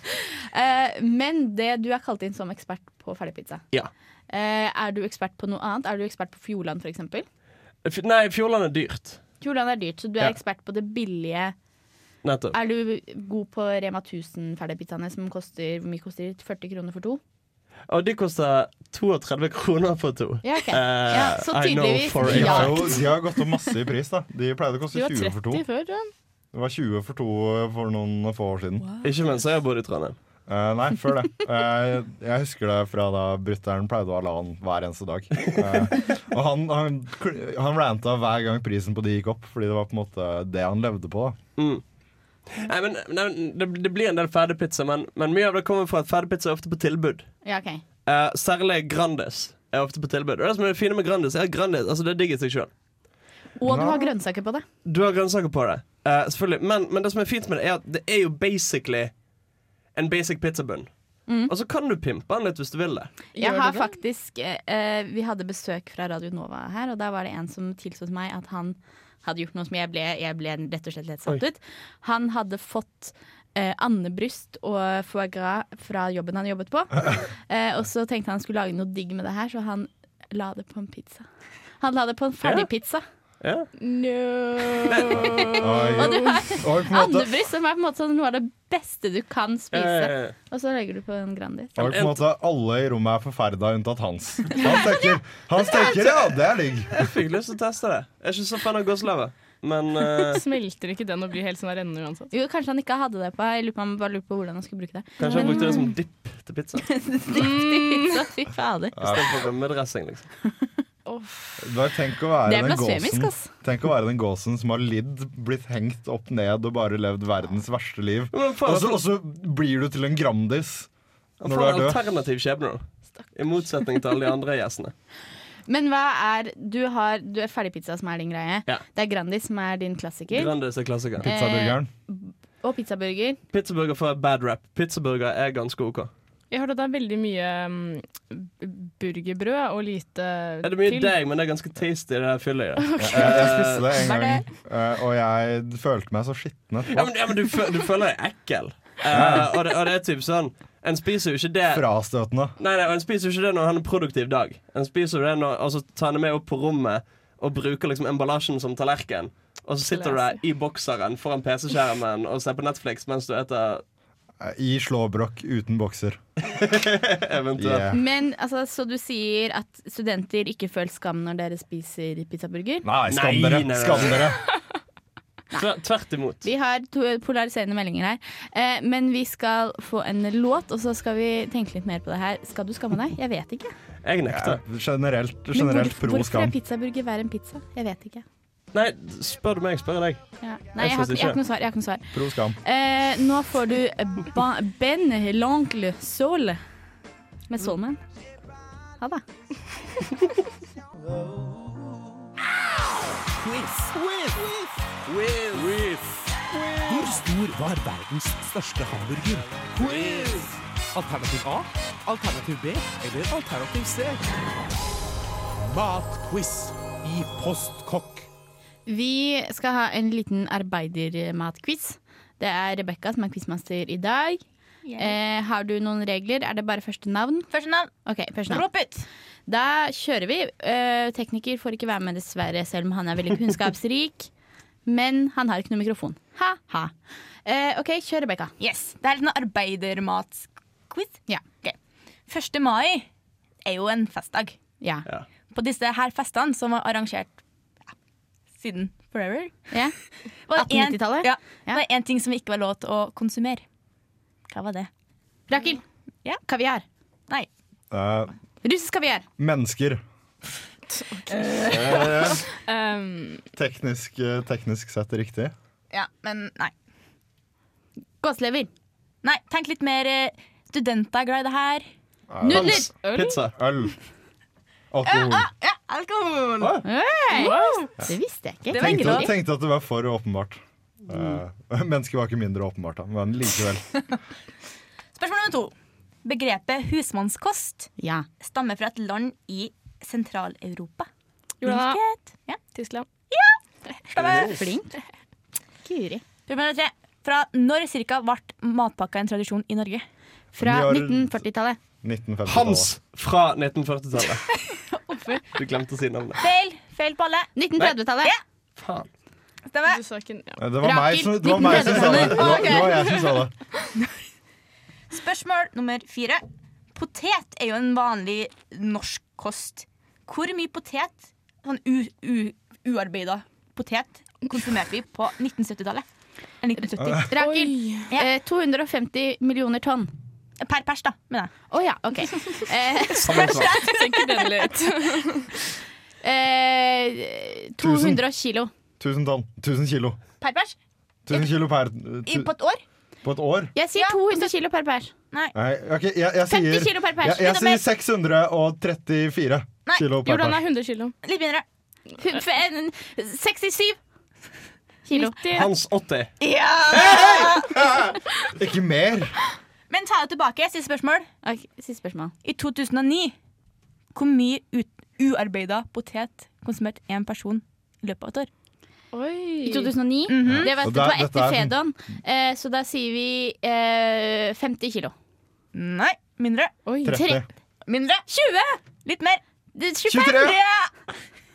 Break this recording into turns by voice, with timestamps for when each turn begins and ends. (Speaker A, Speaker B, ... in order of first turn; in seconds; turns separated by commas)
Speaker A: 0.5-7.2, Speaker B: 7.8-9.4, Speaker A: 9.4-11.6, Speaker B: 12.2-12.6, Speaker A: 12.5-17.2, Speaker B: 17.9-23.0, Speaker A: 20.4-23.1, Speaker C: 22.2-25.9, Speaker D: 24.9-26.1, Speaker C: 26.5-28.9, Speaker B: 29.0-30.2, Speaker C: 30.5-41.4, Speaker B: 41.6-53.2, Speaker A: 47.4-47.8, Speaker A: 53.6-54.6, Speaker C: 53.6-54.0, Speaker B: 54.8-63.3, Speaker A: 61.3-61.5, Speaker D: 63.3-64.0, Speaker A: 63.3-83.0, Speaker B: 82.4-82.7, Speaker B: 83.4-83.7, Speaker D: 83.8-86.3, Speaker B: 84.9-85.2, Speaker C: 85.6-87.3, Speaker A: 86.0-91.8, Speaker B: 89.7-90.3, Speaker C: 91.8-96.9, Speaker B: 91.8-92.2, Speaker B: 95.8-96.4, Speaker B: 96.9-100.4, Speaker D: 100.3-102.3, Speaker A: 102.3-106.0, Speaker B: 105.2-107.0, Speaker D: 105.2-105.9, Speaker A: 106.9-109.0, Speaker D: 107.3-108.1, Speaker C: 109.0-109.5, Speaker B: 109.0-110.3, Speaker D: 111.0-111.8, Speaker C: 111.6-122.0, Speaker A: 112.5-113.5, Speaker B: 118.3-119.0, Speaker B: 121.4-124.9, Speaker A: 125.7-133.4, Speaker B: 130.3-131.2, Speaker C: 131.2-131.9, Speaker B: 133.5-136.1, Speaker D: 136.5-141.2, Speaker B: 140.6-143.9, Speaker D: 142.8-143.3, Speaker C: 143.0-147.5, Speaker E: 143.3-144.4, Speaker B: 146.9-163.8, Speaker C: 149.1-149.5, Speaker C: 151.7-152.5, Speaker D: 159.8-160.4, Speaker C: 164.4-166.2, Speaker B: 166.6-167.9, Speaker C: 167.6-168.0, Speaker A: 167.9-172.9, Speaker C: 172.8-174.4, Speaker B: 173.1-174.3, Speaker A: 175.5-183.7, Speaker B: 175.5-176.4, Speaker B: 184.0-184.6, Speaker C: 184.3-186.5, Speaker A: 185.5-188.2, Speaker B: 188.7-191.4, Speaker A: 190.4-196.6, Speaker C: 192.1-192.6, Speaker A: 197.5-198.0, Speaker F: 203.4-204.3, Speaker F: 205.1-206.0, Speaker F: 206.8-214.4, Speaker F: 215.6-218.3, Speaker A: 218.8-228.9, Speaker E: 224.8-225.2, Speaker E: 227.5-229.1, Speaker A: 229.5-234.3, Speaker A: 234.8-238.5, Speaker E: 238.6-241.7, Speaker A: 241.3-241.7, Speaker E: 242.3-243.1, Speaker E: 243.6-244.6, Speaker A: 244.8-245.1, Speaker E: 245.5-247.9, Speaker E: 248.6-249.7, Speaker A: 249.7-251.8, Speaker E: 250.4-253.7, Speaker E: 254.5-254.9, Speaker A: 255.5-256.8, Speaker C: 257.9-258.3, Speaker A: 258.6-259.2, Speaker C: 259.4-260.0, Speaker D: 260.9-263.4, Speaker E: 261.3-262.0, Speaker C: 261.8-262.5, Speaker C: 263.5-265.5, Speaker E: 265.9-266.7, Speaker A: 268.2-268.7, Speaker E: 269.2-271.9, Speaker C: 272.3-273.9, Speaker A: 272.4-273.3, Speaker B: 273.1-273.5, Speaker C: 274.9-275.5, Speaker E: 275.1-276.8, Speaker A: 276.8-279.3, Speaker D: 277.3-277.9, Speaker E: 278.7-279.3, Speaker C: 278.7-284.0, Speaker E: 285.1-291.1, Speaker A: 288.0-288.2, Speaker D: 291.6-293.1, Speaker E: 291.6-294.7, Speaker B: 294.2-294.5, Speaker A: 294.5-294.9, Speaker A: 295.8-296.2, Speaker E: 296.5-300.0, Speaker C: 300.5-302.9, Speaker A: 300.6-301.8, Speaker B: 302.4-304.6, Speaker E: 304.7-305.5, Speaker B: 305.5-306.4, Speaker E: 306.4-307.6, Speaker A: 307.5-308.3, Speaker B: 308.8-309.1, Speaker E: 309.7-310.0, Speaker D: 309.9-310.6, Speaker C: 310.6-313.5, Speaker A: 310.8-312.7, Speaker E: 311.5-313.2, Speaker E: 315.1-316.4, Speaker E: 316.9-327.3, Speaker C: 327.0-327.2, Speaker A: 327.1-330.1, Speaker D: 327.4-328.1, Speaker E: 330.6-331.6, Speaker A: 331.7-333.5, Speaker E: 333.2-334.7, Speaker D: 333.3-335.5, Speaker A: 336.2-338.7, Speaker C: 337.8-338.2, Speaker C: 339.0-340.2, Speaker E: 340.4-340.8, Speaker C: 341.2-342.5, Speaker E: 342.2-342.8, Speaker C: 343.2-343.7, Speaker A: 343.7-345.1, Speaker E: 343.9-344.5, Speaker C: 345.5-350.6, Speaker A: 346.5-347.8, Speaker E: 349.9-350.1, Speaker D: 350.1-351.1, Speaker E: 351.2-351.6, Speaker A: 352.2-354.0, Speaker A: 355.0-355.4, Speaker D: 355.1-355.7, Speaker B: 355.5-356.3, Speaker E: 356.4-357.8, Speaker C: 356.9-359.4, Speaker E: 359.9-361.3, Speaker A: 361.4-362.3, Speaker E: 362.4-363.4, Speaker E: 364.1-368.5, Speaker D: 369.1-369.9, Speaker A: 369.6-375.1, Speaker E: 370.3-370.7, Speaker C: 370.4-371.7, Speaker E: 375.7-376.8, Speaker D: 376.8-377.2, Speaker C: 377.0-377.4, Speaker A: 377.1-377.4, Speaker E: 377.8-378.3, Speaker A: 378.3-378.8, Speaker E: 379.0-379.4, Speaker A: 379.7-380.4, Speaker C: 380.1-380.6, Speaker E: 380.1-381.1